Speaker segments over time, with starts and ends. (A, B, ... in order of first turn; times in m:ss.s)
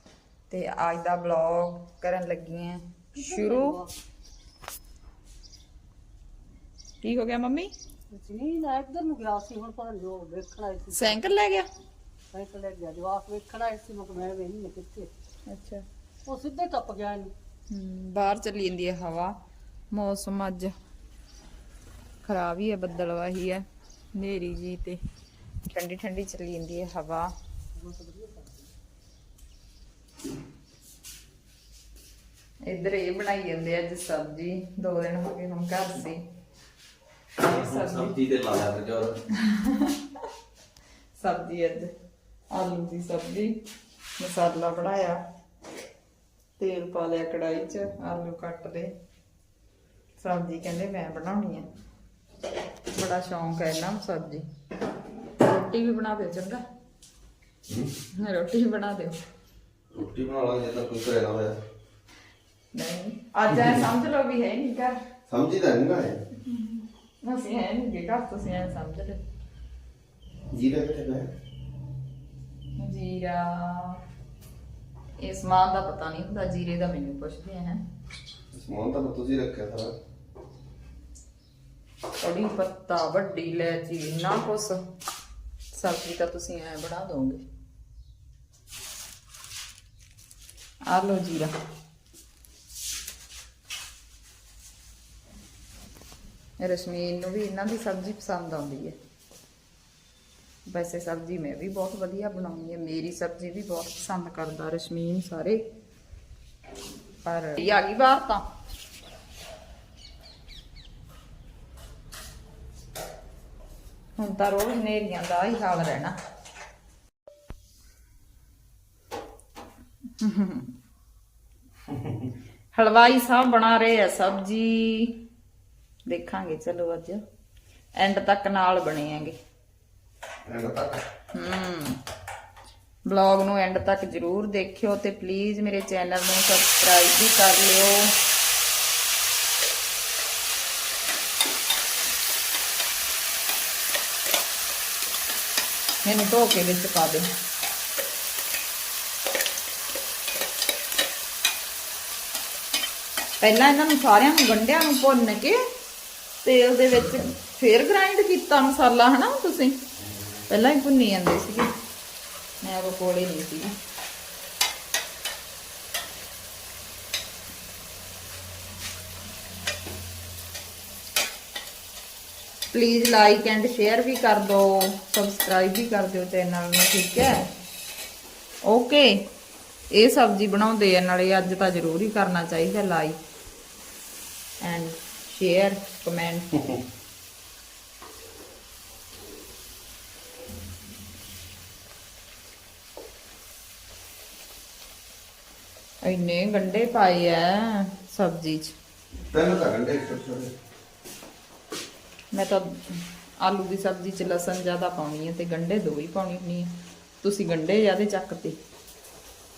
0:00.5-0:03.8 A
0:03.1-0:03.9 B
0:07.0-0:07.7 A
0:08.1-0:11.2 B
0:10.9-0:11.6 A
0:12.3-0:15.1 B
0:15.5-0:15.8 A
0:16.2-0:17.3 B
0:17.7-0:19.3 A
0:19.9-0:20.7 A
0:22.2-0:25.0 A
0:25.7-0:27.3 A
0:27.7-0:28.7 B
0:32.6-0:36.2 A
0:37.4-0:38.1 A
0:37.4-0:39.2 C
0:39.3-0:40.2 A
0:41.2-0:41.9 A
0:42.5-0:43.5 A
0:44.2-0:45.2 A
0:46.6-0:48.9 A
0:50.2-0:51.7 A
0:52.9-0:54.4 A
0:55.4-0:56.6 A
0:58.2-0:59.2 A
0:59.9-1:01.6 C
1:02.7-1:05.0 A
1:05.3-1:06.2 C
1:06.4-1:09.2 A
1:10.5-1:11.3 C
1:12.8-1:14.0 A
1:15.2-1:17.8 A
1:18.5-1:19.9 C
1:22.2-1:24.8 A
1:25.7-1:27.4 A
1:30.9-1:31.5 A
1:36.6-1:39.0 A
1:40.6-1:45.6 A
1:47.2-1:48.5 A
1:54.2-1:56.2 A
2:00.2-2:00.7 A
2:02.7-2:05.2 A
2:06.1-2:07.2 A
2:08.0-2:09.4 A
2:10.4-2:11.0 C
2:11.3-2:12.0 A
2:13.0-2:18.1 A
2:26.0-2:27.3 A
2:33.4-2:35.6 A
2:36.4-2:39.8 A
2:40.5-2:41.7 A
2:42.6-2:43.7 A
2:52.7-2:57.4 A
2:58.6-2:59.2 A
2:59.9-3:03.2 A
3:04.6-3:06.6 A
3:16.0-3:18.7 A
3:19.3-3:20.5 C
3:22.3-3:28.6 A